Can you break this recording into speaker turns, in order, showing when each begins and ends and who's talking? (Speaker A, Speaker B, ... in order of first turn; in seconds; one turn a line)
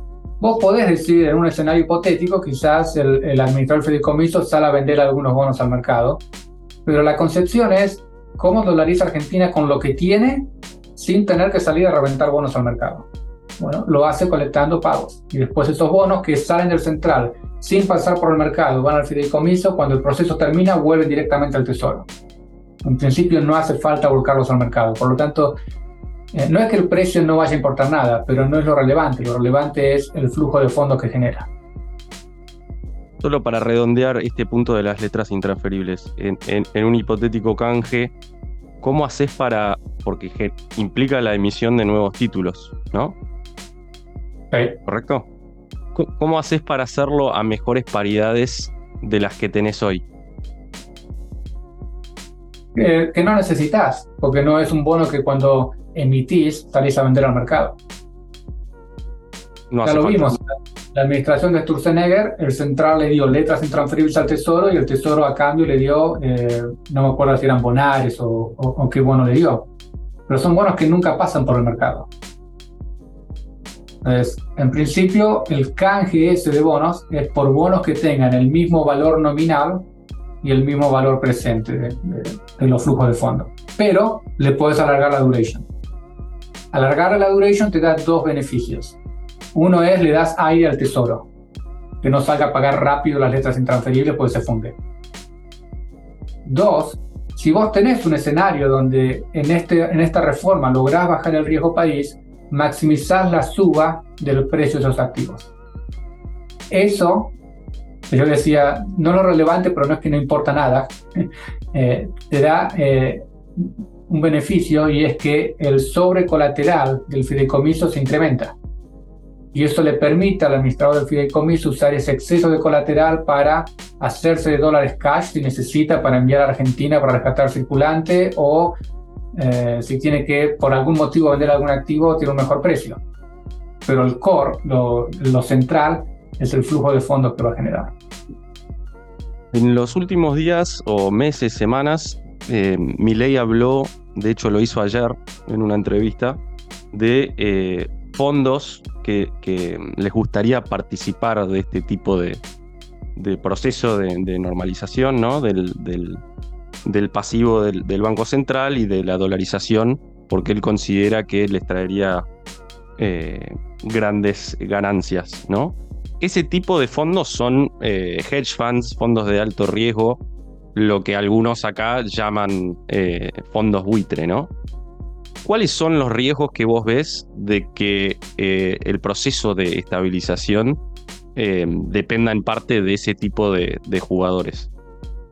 Speaker A: 0.4-6.2
Speaker A: 6.8-13.1
Speaker A: 13.6-22.1
Speaker A: 22.8-25.6
Speaker A: 26.3-31.5
Speaker B: 33.2-38.1
Speaker B: 38.8-43.2
Speaker A: 44.5-44.8
Speaker B: 44.9-45.3
Speaker B: 45.9-50.0
Speaker A: 52.8-57.8
Speaker B: 59.7-60.4
Speaker A: 59.8-69.7
Speaker A: 70.3-72.1
Speaker A: 74.0-79.9
Speaker A: 80.4-85.7
Speaker A: 86.7-89.0
Speaker A: 89.5-91.3
Speaker A: 92.0-94.8
Speaker A: 96.5-105.5
Speaker A: 106.7-107.3
Speaker A: 108.1-118.6
Speaker A: 119.5-128.8
Speaker A: 129.3-133.0
Speaker A: 133.8-137.9
Speaker B: 139.5-146.4
Speaker B: 146.9-152.4
Speaker B: 153.2-156.2
Speaker B: 156.8-162.3
Speaker B: 163.0-170.2
Speaker B: 170.7-174.5
Speaker B: 175.4-180.8
Speaker B: 181.3-184.7